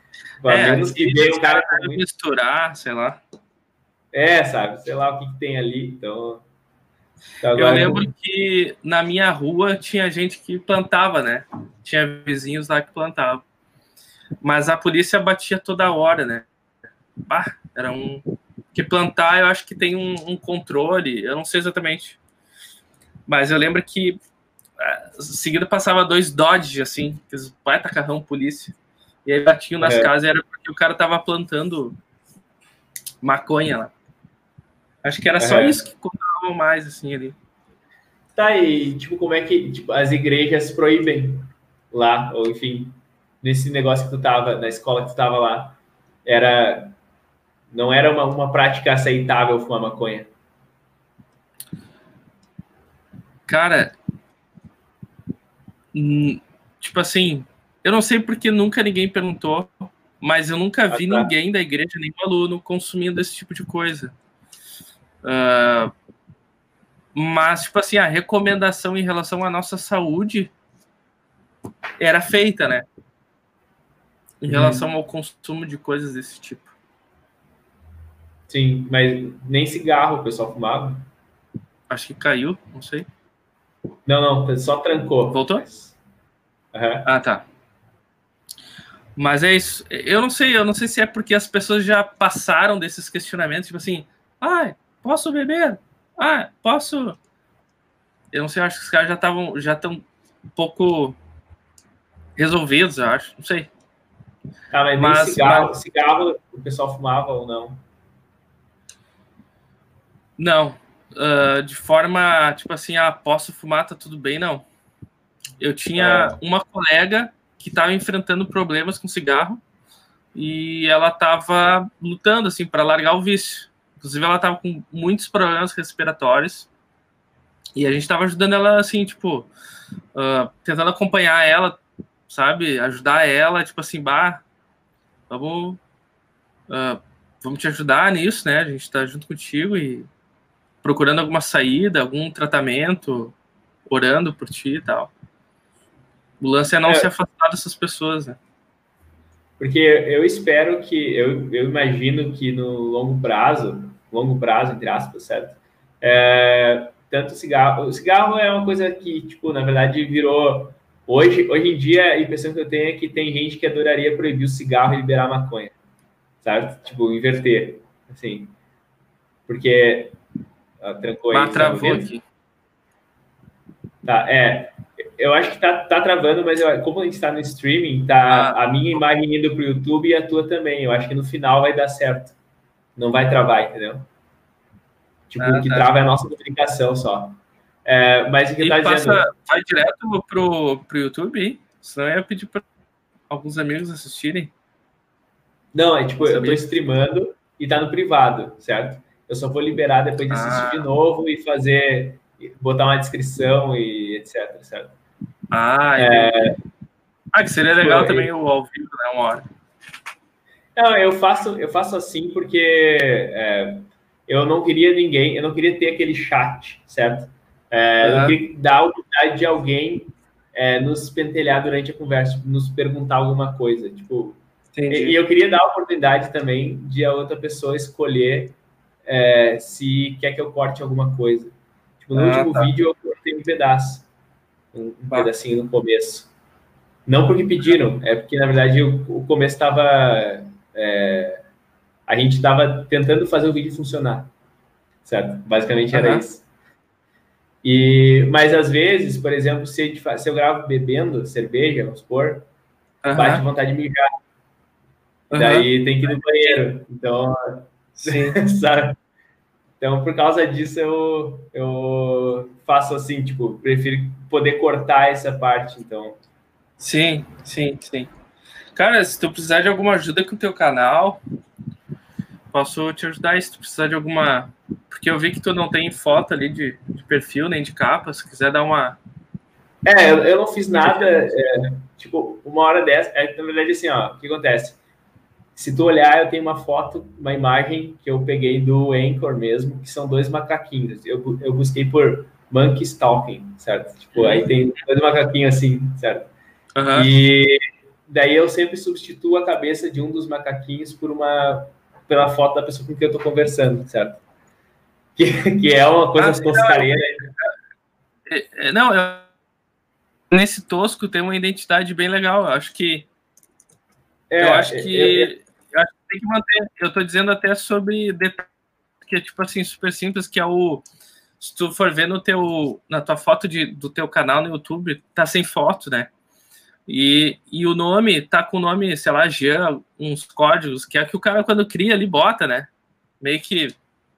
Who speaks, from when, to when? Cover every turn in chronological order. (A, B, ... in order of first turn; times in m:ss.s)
0:00.4-0:02.0 A
0:00.5-0:03.2 B
0:04.1-0:06.4 A
0:07.4-0:08.1 A
0:07.5-0:13.4 B
0:14.4-0:16.5 B
0:17.3-0:22.2 B
0:23.3-0:24.2 B
0:24.8-0:32.0 B
0:29.8-0:30.1 A
0:33.2-0:33.9 B
0:35.0-0:37.4 B
0:35.4-0:35.8 A
0:38.3-0:47.0 A
0:47.7-0:50.3 A
0:53.5-0:53.9 B
0:55.9-1:04.1 B
1:00.9-1:01.3 A
1:05.2-1:05.9 B
1:07.1-1:10.5 B
1:12.0-1:12.9 B
1:14.4-1:16.7 B
1:14.5-1:14.8 A
1:18.5-1:21.0 A
1:21.9-1:23.1 B
1:24.0-1:26.0 A
1:25.3-1:25.6 B
1:26.7-1:27.0 A
1:27.0-1:27.4 B
1:29.2-1:37.2 B
1:38.3-1:40.0 B
1:40.6-1:41.2 B
1:42.4-1:43.7 B
1:44.7-1:47.8 A
1:45.0-1:45.7 B
1:50.4-1:54.6 B
1:55.6-1:59.6 B
1:56.0-1:56.4 A
2:00.3-2:06.7 B
2:07.8-2:09.5 B
2:10.1-2:14.4 B
2:15.3-2:15.8 B
2:16.7-2:20.1 B
2:20.8-2:23.3 B
2:23.9-2:25.1 B
2:26.4-2:28.4 B
2:29.6-2:45.7 A
2:46.4-2:48.5 A
2:49.5-2:50.2 A
2:50.8-2:52.1 A
2:51.3-2:52.2 B
2:54.0-3:02.3 A
2:58.3-2:58.6 B
3:03.0-3:04.1 A
3:05.3-3:09.2 A
3:05.4-3:05.9 B
3:08.6-3:12.6 B
3:13.3-3:14.5 B
3:15.7-3:25.0 A
3:16.2-3:16.6 B
3:20.3-3:20.8 B
3:25.5-3:26.4 B
3:26.0-3:26.6 A
3:27.3-3:29.4 B
3:27.7-3:28.3 A
3:30.8-3:54.1 A
3:38.0-3:38.4 B
3:44.7-3:45.2 B
3:52.1-3:52.7 B
3:54.7-3:56.3 A
3:57.0-4:01.4 A
4:02.1-4:04.3 A
4:05.0-4:06.4 A
4:05.9-4:06.2 B
4:07.6-4:12.4 A
4:13.0-4:13.4 B
4:13.1-4:14.1 A
4:15.3-4:16.6 B
4:15.3-4:19.0 A
4:18.0-4:18.4 B
4:19.8-4:26.2 A
4:26.8-4:28.1 B
4:28.7-4:31.2 B
4:32.5-4:39.0 B
4:39.8-4:44.8 A
4:40.7-4:41.3 B
4:45.6-4:56.3 A
4:54.1-4:54.5 B
4:56.7-4:57.1 B
4:56.9-5:04.2 A
5:05.2-5:07.3 A
5:06.2-5:07.0 B
5:08.3-5:09.2 B
5:10.3-5:13.1 B
5:14.3-5:15.3 A
5:14.4-5:18.5 B
5:19.0-5:20.8 B
5:21.4-5:26.1 B
5:26.9-5:32.7 B
5:33.2-5:33.8 B